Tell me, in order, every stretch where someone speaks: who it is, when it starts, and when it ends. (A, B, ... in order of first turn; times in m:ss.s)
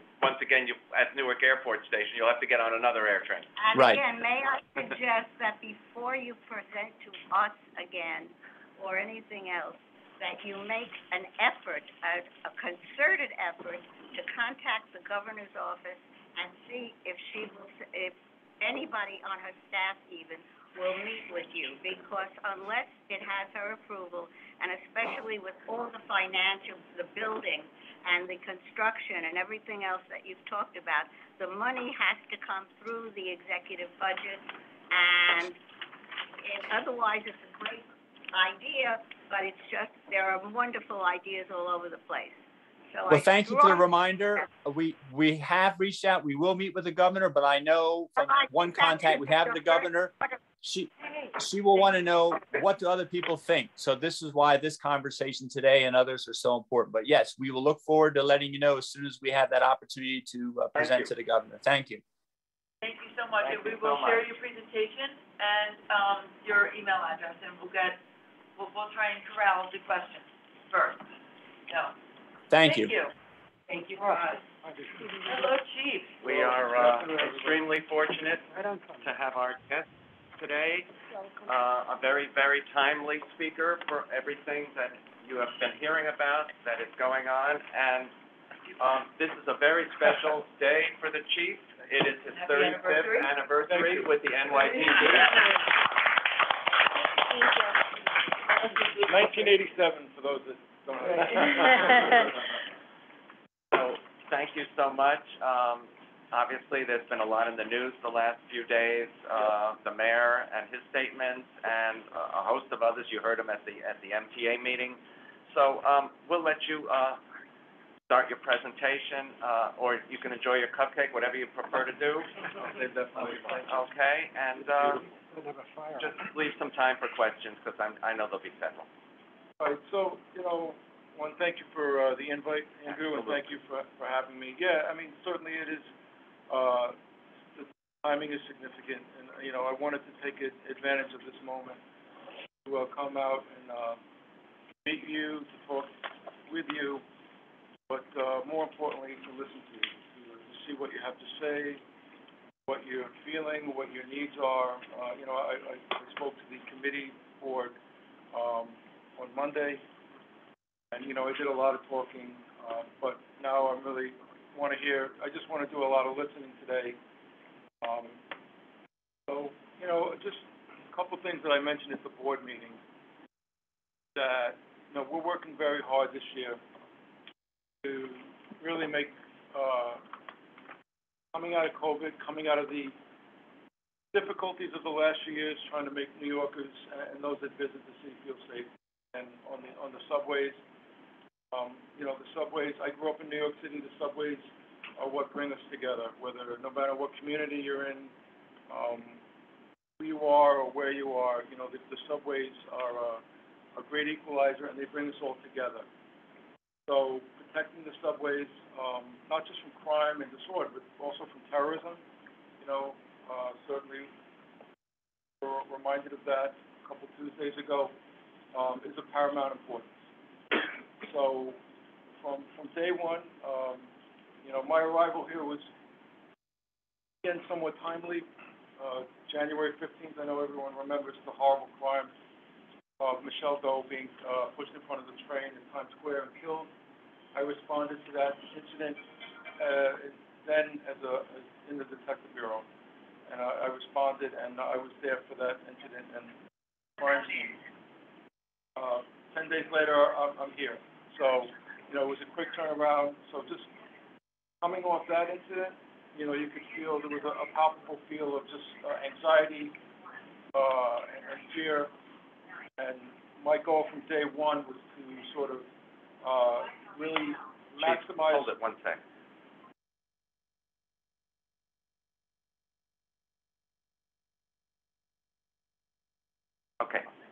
0:00.2-0:03.5 A
0:03.6-0:35.6 B
0:03.8-0:04.0 C
0:36.4-0:43.9 B
0:43.1-1:02.0 C
0:48.2-0:49.8 B
1:00.8-1:01.1 A
1:02.8-1:08.0 D
1:03.4-1:04.3 A
1:08.6-1:11.0 D
1:12.5-1:13.0 C
1:12.6-1:13.1 D
1:13.7-1:14.4 D
1:14.0-1:15.5 E
1:15.3-1:16.2 D
1:16.2-1:18.5 A
1:16.4-1:17.3 F
1:18.5-1:19.1 E
1:19.0-1:19.9 A
1:20.4-1:20.9 A
1:21.5-1:28.1 A
1:28.8-1:35.5 A
1:32.3-1:33.4 D
1:33.6-1:35.2 F
1:37.4-1:37.7 B
1:39.0-1:42.2 F
1:41.8-1:42.3 A
1:43.7-1:57.2 A
1:58.1-2:02.4 A
2:02.4-2:03.9 F
2:03.2-2:05.0 A
2:04.6-2:05.0 F
2:05.3-2:06.1 E
2:06.0-2:08.9 A
2:09.6-2:15.9 F
2:13.1-2:13.4 A
2:16.5-2:17.0 F
2:17.6-2:21.8 F
2:22.6-2:24.0 F
2:24.8-2:25.9 F
2:26.5-2:27.0 F
2:27.9-2:31.8 F
2:32.7-2:37.8 F
2:38.3-2:39.8 F
2:40.9-2:47.0 F
2:47.8-2:48.2 F
2:49.3-2:52.8 F
2:54.1-2:56.6 F
2:57.8-3:00.0 F
3:01.3-3:03.0 F
3:04.1-3:10.6 F
3:11.5-3:14.5 F
3:15.0-3:18.1 F
3:18.7-3:19.2 F
3:20.0-3:23.2 F
3:23.8-3:25.8 F
3:26.9-3:32.0 F
3:32.6-3:34.1 F
3:35.4-3:37.9 F
3:38.5-3:39.9 F
3:41.0-3:41.6 F
3:42.2-3:43.9 F
3:44.4-3:45.7 F
3:47.2-3:48.3 F
3:48.8-3:52.1 F
3:53.0-3:56.7 F
3:57.3-3:59.0 F
3:59.6-4:02.7 F
4:03.3-4:06.3 F
4:07.0-4:07.6 F
4:08.8-4:13.7 F
4:14.6-4:19.8 F
4:20.5-4:21.9 F
4:22.8-4:25.7 F
4:26.2-4:28.5 F
4:27.8-4:29.0 A
4:36.8-4:37.1 A